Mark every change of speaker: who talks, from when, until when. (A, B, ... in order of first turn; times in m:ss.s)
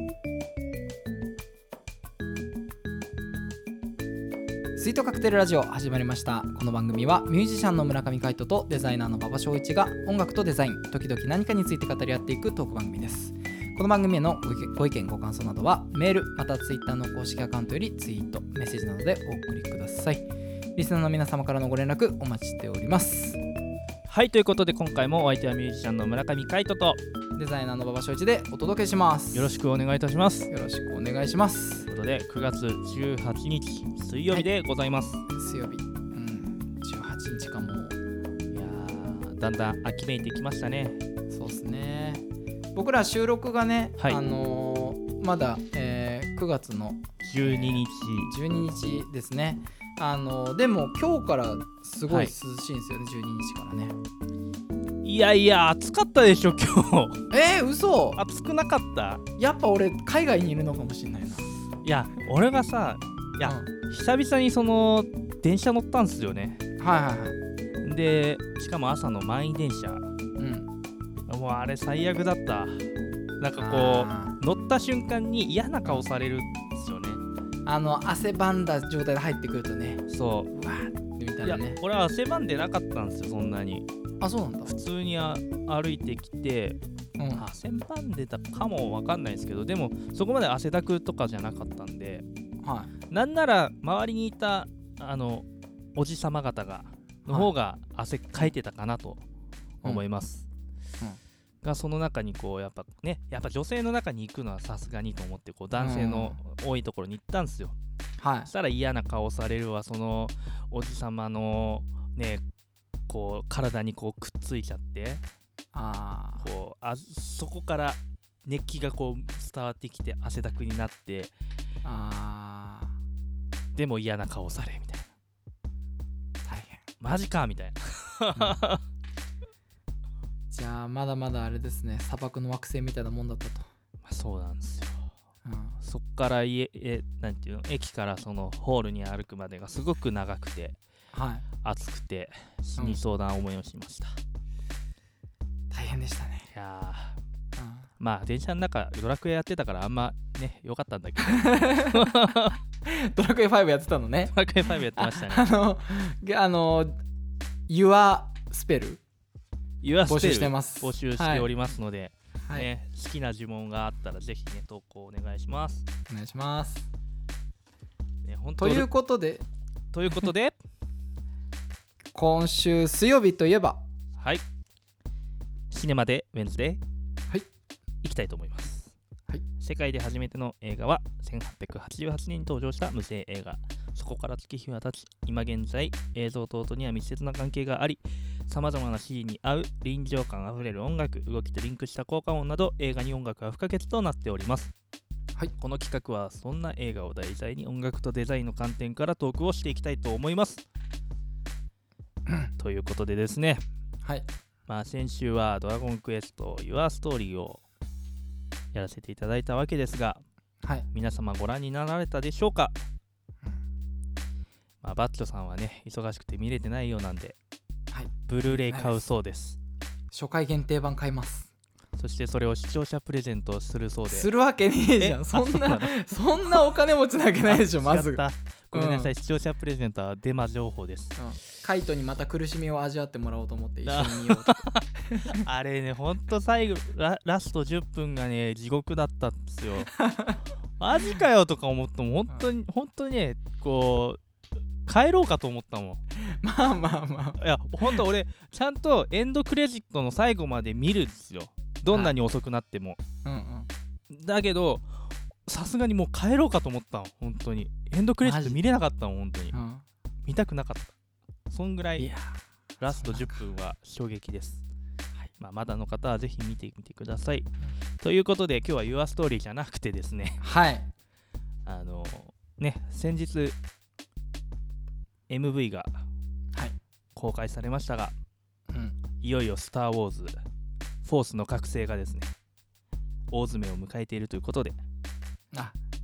0:04.8-0:23.4 A
0:24.1-0:27.0 B
0:27.3-0:29.6 A
0:29.3-0:30.5 B
0:30.5-0:31.9 A
0:31.8-0:35.2 B
0:35.3-0:38.0 A
0:38.5-0:41.0 B
0:41.3-0:53.9 A
0:47.2-0:48.3 B
0:52.1-0:52.3 B
0:55.0-0:57.2 B
0:57.3-0:58.2 A
0:58.1-0:59.2 B
0:59.4-1:01.5 A
1:01.8-1:06.6 B
1:03.4-1:03.7 A
1:06.8-1:07.4 A
1:07.8-1:10.0 B
1:10.4-1:10.7 A
1:11.3-1:12.8 B
1:13.4-1:17.2 B
1:13.6-1:14.4 A
1:17.6-1:21.8 A
1:20.1-1:20.5 B
1:21.4-1:23.8 B
1:24.2-1:24.7 A
1:24.6-1:26.8 B
1:27.2-1:27.4 A
1:27.3-1:32.2 B
1:32.6-1:32.9 A
1:33.1-1:39.2 B
1:37.2-1:37.5 A
1:39.8-1:40.4 B
1:41.6-1:47.8 B
1:45.8-1:46.4 A
1:48.2-1:48.5 A
1:48.5-1:52.4 B
1:53.1-1:55.2 B
1:55.7-1:56.5 A
1:56.4-2:01.3 B
2:01.8-2:03.0 A
2:03.7-2:05.1 B
2:06.4-2:06.8 A
2:07.0-2:08.8 B
2:10.5-2:13.7 A
2:14.0-2:15.0 B
2:15.4-2:15.8 A
2:15.8-2:20.8 B
2:21.1-2:21.4 A
2:21.6-2:24.2 B
2:25.7-2:26.5 A
2:26.5-2:27.2 B
2:27.6-2:27.9 A
2:28.0-2:32.6 B
2:31.2-2:32.1 A
2:32.8-2:34.3 A
2:34.3-2:35.5 B
2:34.9-2:37.0 A
2:37.7-2:39.0 A
2:39.8-2:45.8 B
2:40.1-2:41.5 A
2:42.4-2:42.7 A
2:46.1-2:46.9 A
2:48.2-2:48.9 B
2:48.6-2:49.4 A
2:49.9-2:50.6 B
2:52.1-2:53.8 A
2:54.2-2:54.4 B
2:55.7-2:56.8 B
2:58.0-2:58.9 B
2:59.6-3:14.7 B
3:15.6-3:20.6 B
3:22.3-3:22.5 A
3:22.6-3:23.6 B
3:24.7-3:27.6 B
3:28.7-3:30.2 B
3:30.9-3:32.8 B
3:34.8-3:37.4 B
3:37.9-3:39.0 A
3:38.3-3:39.6 B
3:40.1-3:41.5 A
3:42.0-3:44.3 B
3:44.1-3:49.1 A
3:45.0-3:46.7 B
3:47.4-3:51.2 B
3:51.2-3:55.4 A
3:53.8-3:54.8 B
3:55.4-3:59.9 B
3:59.9-4:00.4 A
4:00.8-4:04.2 B
4:04.8-4:06.0 B
4:06.2-4:08.0 A
4:07.4-4:13.0 B
4:13.2-4:13.7 A
4:14.1-4:14.8 B
4:15.4-4:19.6 B
4:18.2-4:18.6 A
4:19.5-4:19.8 A
4:20.2-4:20.9 B
4:21.5-4:22.1 B
4:22.0-4:23.4 A
4:22.8-4:24.6 B
4:25.4-4:27.5 B
4:28.0-4:30.4 B
4:30.4-4:30.9 A
4:31.6-4:33.6 B
4:35.3-4:36.0 B
4:37.1-4:38.1 B
4:38.7-4:39.0 A
4:39.2-4:40.4 B
4:41.0-4:42.3 B
4:43.3-4:44.8 B